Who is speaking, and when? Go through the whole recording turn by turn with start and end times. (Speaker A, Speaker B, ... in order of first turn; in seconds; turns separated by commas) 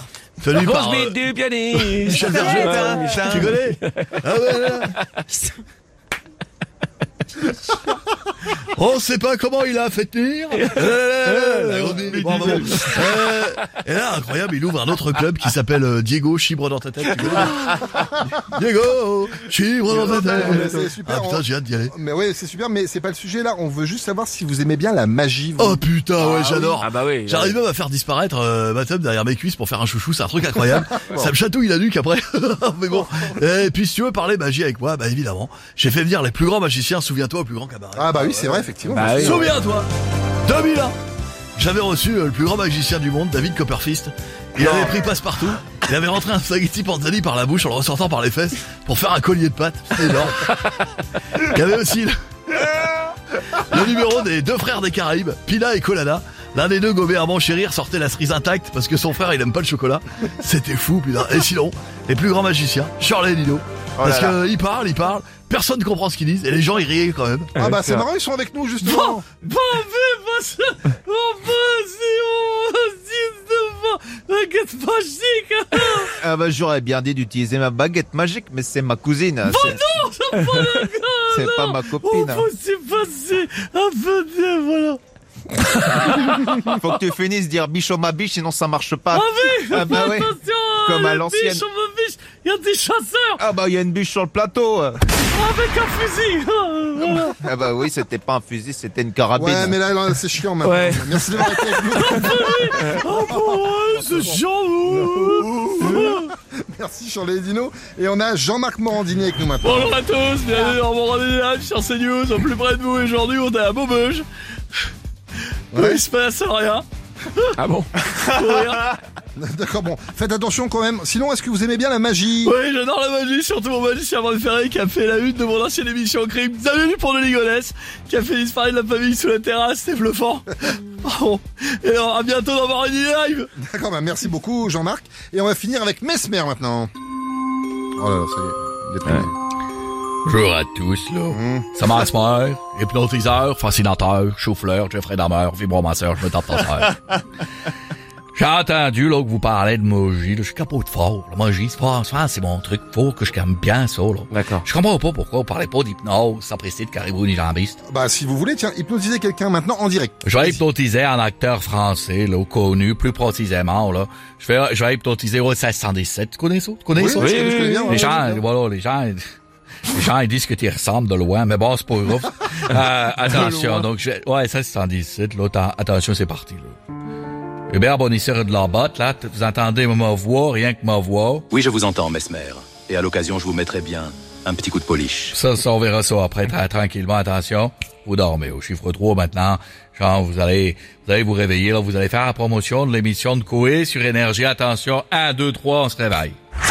Speaker A: 0.4-4.9, Speaker B: 0.5-4.1, Speaker C: 2.1-3.6, Speaker A: 8.7-21.9, Speaker B: 11.4-11.9, Speaker C: 12.0-13.2, Speaker D: 19.9-25.9, Speaker A: 25.6-39.9, Speaker B: 26.3-27.6, Speaker D: 31.1-31.3, Speaker D: 38.0-39.5, Speaker B: 38.9-39.5, Speaker A: 40.4-40.9, Speaker A: 41.6-50.7, Speaker A: 51.4-52.7, Speaker A: 53.4-67.7, Speaker C: 64.0-64.4, Speaker B: 67.5-68.0, Speaker D: 67.6-69.2, Speaker E: 68.8-76.2, Speaker C: 76.2-79.8, Speaker E: 79.5-85.0, Speaker C: 81.3-82.5, Speaker E: 85.8-86.8, Speaker C: 86.7-91.6, Speaker E: 89.1-93.4, Speaker C: 93.4-95.0, Speaker E: 95.3-97.4, Speaker C: 97.4-99.8, Speaker D: 99.3-104.4, Speaker B: 100.6-101.2, Speaker E: 101.5-106.3, Speaker D: 104.9-110.0, Speaker E: 109.6-114.2, Speaker E: 115.7-116.8, Speaker D: 115.7-116.0, Speaker B: 117.6-118.0, Speaker E: 118.2-118.9, Speaker D: 119.4-122.5, Speaker E: 122.4-133.5, Speaker D: 133.6-136.9, Speaker D: 138.0-139.3, Speaker E: 140.2-147.0, Speaker D: 141.3-141.7, Speaker E: 148.3-157.8, Speaker B: 154.3-154.6, Speaker D: 157.9-160.6, Speaker E: 160.2-169.2, Speaker D: 166.9-168.4, Speaker B: 167.2-168.0, Speaker E: 169.9-176.8, Speaker D: 173.3-173.8, Speaker E: 177.7-181.5, Speaker F: 181.5-185.3, Speaker E: 185.3-196.3